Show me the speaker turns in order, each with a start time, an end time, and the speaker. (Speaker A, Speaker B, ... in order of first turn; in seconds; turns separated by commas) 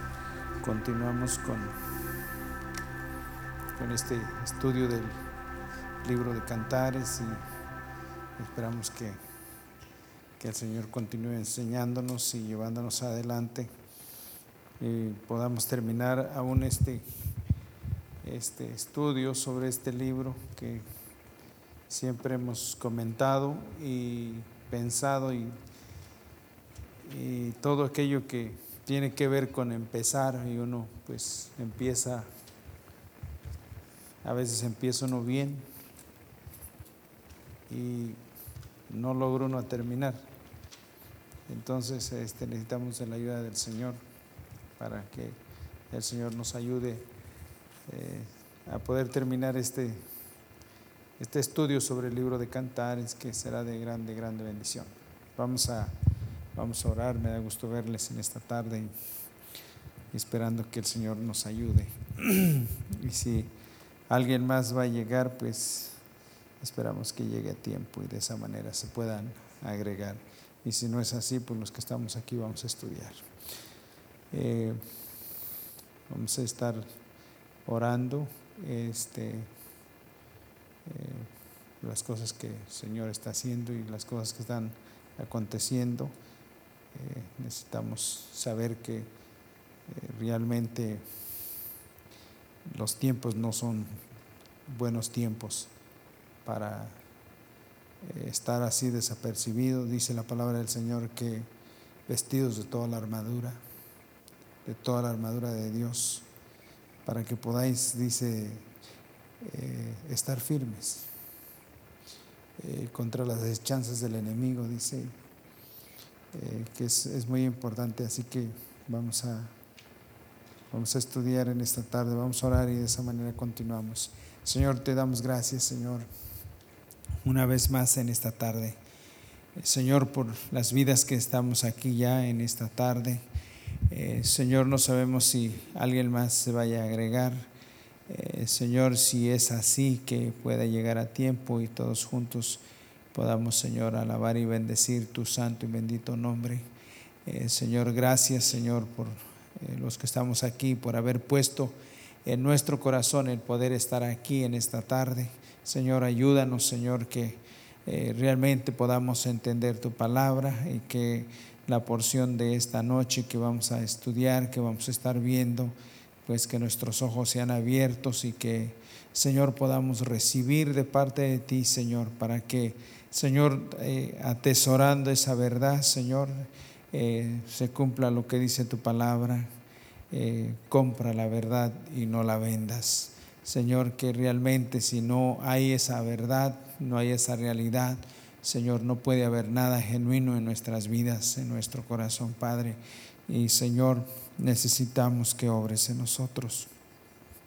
Speaker A: 0.6-1.8, Speaker A: 3.8-5.2, Speaker A: 6.0-7.4, Speaker A: 8.4-9.2, Speaker A: 10.4-13.7, Speaker A: 14.8-17.0, Speaker A: 18.2-20.8, Speaker A: 21.9-25.6, Speaker A: 27.0-32.3, Speaker A: 34.2-35.7, Speaker A: 37.7-38.2, Speaker A: 38.9-40.2, Speaker A: 41.5-44.0, Speaker A: 44.8-45.4, Speaker A: 45.9-47.1, Speaker A: 47.9-50.0, Speaker A: 51.2-55.9, Speaker A: 56.5-58.9, Speaker A: 60.1-63.5, Speaker A: 64.1-66.0, Speaker A: 66.6-73.2, Speaker A: 74.3-74.8, Speaker A: 76.1-76.8, Speaker A: 77.7-79.5, Speaker A: 80.8-81.3, Speaker A: 81.8-86.1, Speaker A: 86.9-89.1, Speaker A: 89.9-91.0, Speaker A: 92.7-94.0, Speaker A: 94.7-95.7, Speaker A: 96.4-97.0, Speaker A: 98.0-101.5, Speaker A: 102.1-103.6, Speaker A: 104.6-106.2, Speaker A: 107.0-108.7, Speaker A: 109.4-111.1, Speaker A: 112.6-115.1, Speaker A: 116.3-119.5, Speaker A: 120.7-126.1, Speaker A: 127.2-128.8, Speaker A: 129.6-133.2, Speaker A: 133.9-137.5, Speaker A: 138.1-142.6, Speaker A: 143.1-146.7, Speaker A: 147.2-179.5, Speaker A: 180.1-196.7